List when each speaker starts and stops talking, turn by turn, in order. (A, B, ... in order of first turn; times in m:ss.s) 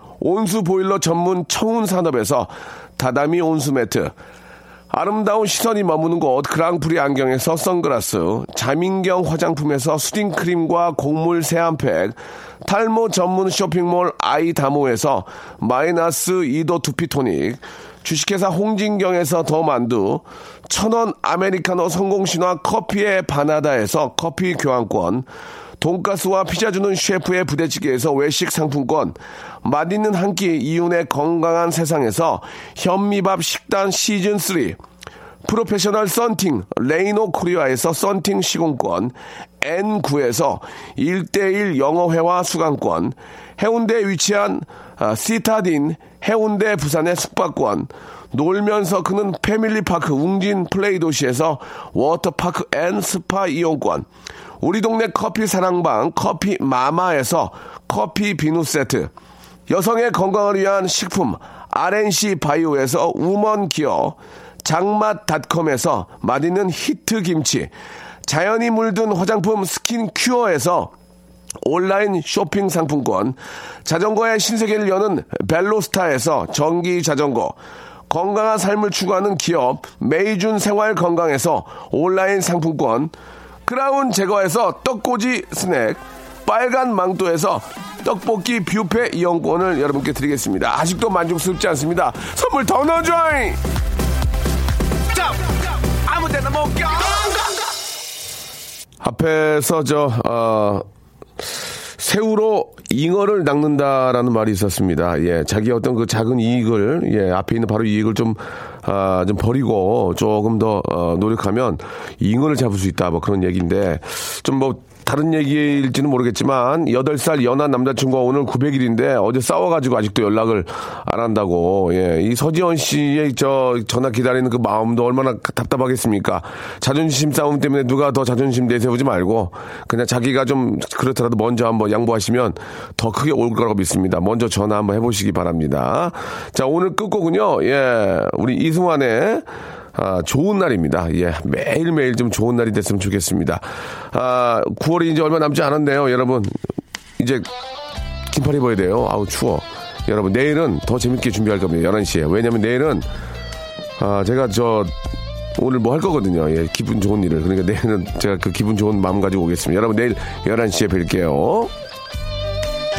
0:00.2-0:04.1 A
0:04.9-0:25.3 A
0:25.8-0:34.8 A
0:35.4-0:54.1 A
0:54.6-0:59.1 A
0:59.7-1:07.7 A
1:08.2-1:10.9 A
1:11.6-1:17.6 A
1:18.1-1:23.1 A
1:23.6-1:33.6 A
1:35.1-1:37.5 A
1:39.0-1:40.8 A
1:42.0-2:26.6 A
2:27.2-2:27.5 A
2:28.3-2:33.1 A
2:34.0-2:35.0 A
2:35.6-2:41.7 A